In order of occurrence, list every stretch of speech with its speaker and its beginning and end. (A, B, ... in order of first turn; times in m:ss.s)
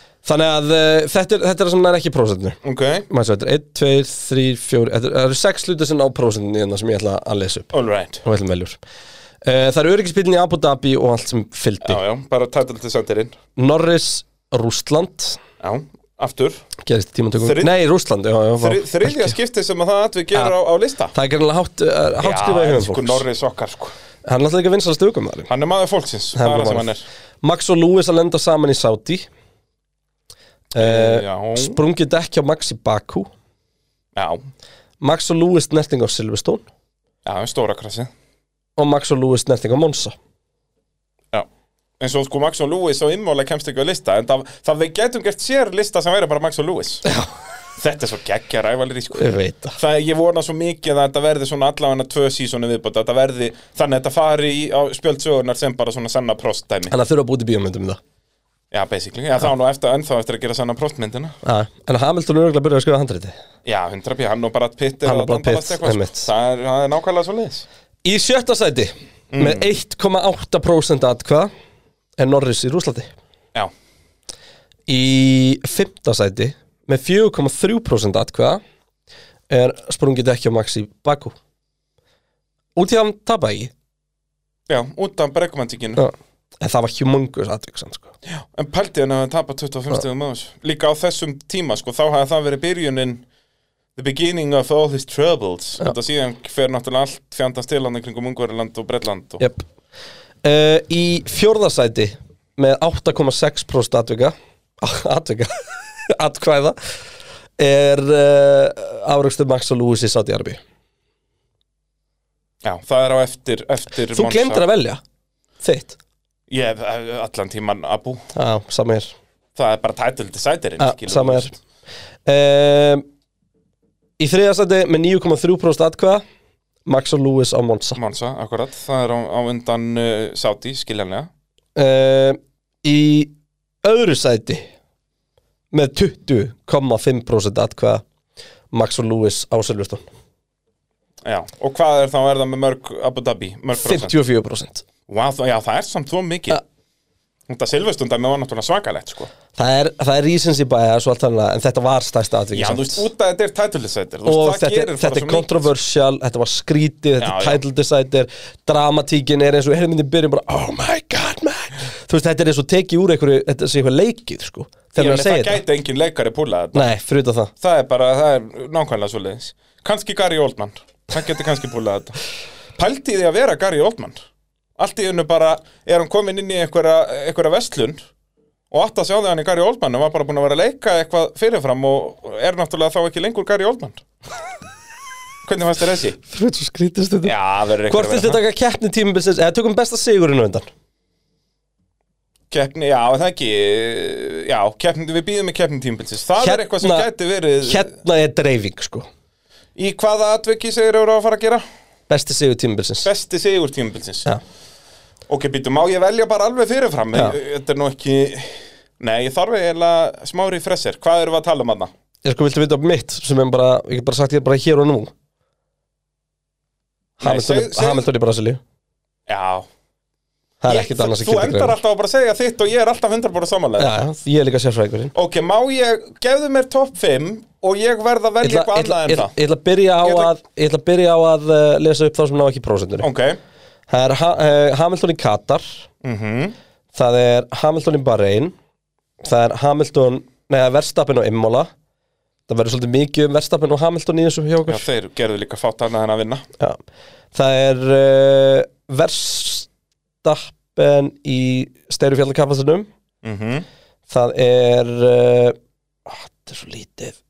0:00.2-0:02.6 A
0:02.6-0:03.1 B
0:03.1-0:08.8 A
0:07.7-0:08.2 B
0:09.4-0:12.0 A
0:11.8-0:13.4 B
0:13.6-0:15.4 A
0:15.6-0:16.6 B
0:16.8-0:19.4 A
0:17.4-0:17.7 B
0:18.6-0:21.1 B
0:21.1-0:23.2 A
0:22.2-0:23.9 B
0:24.2-0:25.5 A
0:25.5-0:27.0 B
0:26.4-0:29.3 A
0:30.7-0:33.3 A
0:30.8-0:31.8 B
0:34.2-0:34.4 B
0:35.0-0:36.6 A
0:37.2-0:38.1 B
0:38.8-0:40.2 A
0:42.0-0:47.0 B
0:47.8-0:56.9 B
0:49.2-0:49.8 A
0:56.9-0:58.0 A
0:58.7-1:01.4 B
1:01.4-1:03.4 A
1:03.6-1:07.7 B
1:05.0-1:06.3 A
1:08.0-1:11.5 A
1:09.3-1:09.7 B
1:12.2-1:13.1 A
1:14.9-1:18.6 A
1:19.5-1:21.4 A
1:22.8-1:23.7 A
1:24.7-1:26.0 B
1:26.0-1:28.1 A
1:28.3-1:33.2 B
1:34.0-1:39.4 B
1:39.4-1:39.6 A
1:40.4-1:46.8 A
1:47.6-1:50.6 A
1:52.6-1:54.6 B
1:54.1-1:55.0 A
1:55.6-1:56.0 A
1:56.5-1:58.2 B
1:58.4-1:59.1 A
1:59.6-2:01.6 B
2:00.8-2:01.5 A
2:02.3-2:03.0 A
2:04.2-2:06.2 A
2:06.9-2:08.0 A
2:08.0-2:11.3 B
2:11.8-2:13.3 A
2:13.8-2:14.7 A
2:15.7-2:18.0 A
2:18.7-2:20.0 A
2:21.2-2:24.1 B
2:23.8-2:24.8 A
2:25.1-2:26.6 B
2:27.5-2:29.3 B
2:29.6-2:33.1 A
2:32.5-2:35.7 B
2:34.3-2:45.6 A
2:37.2-2:37.6 B
2:45.0-2:46.9 B
2:46.7-2:47.5 A
2:47.6-2:52.2 B
2:52.8-2:54.2 B
2:54.8-2:58.0 B
2:58.7-3:04.0 B
3:05.4-3:06.2 B
3:06.3-3:10.7 A
3:07.2-3:08.4 B
3:12.5-3:17.9 B
3:16.4-3:17.1 A
3:17.6-3:19.1 A
3:19.8-3:21.6 B
3:22.1-3:23.1 A
3:23.0-3:24.3 B
3:25.3-3:31.9 B
3:32.2-3:35.1 A
3:37.2-3:38.6 A
3:37.2-3:38.1 B
3:39.3-3:39.7 B
3:40.6-3:41.8 A
3:40.7-3:44.0 B
3:43.8-3:45.1 A
3:45.1-3:49.3 B
3:48.4-3:53.1 A
3:50.0-3:50.3 B
3:53.0-3:53.4 B
3:53.9-3:55.9 A
3:56.0-3:56.6 B
3:56.9-3:58.5 A
3:59.2-4:01.7 A
4:02.5-4:04.8 A
4:04.7-4:06.5 B
4:07.3-4:09.7 A
4:10.2-4:12.9 A
4:13.2-4:13.7 B
4:14.1-4:17.2 A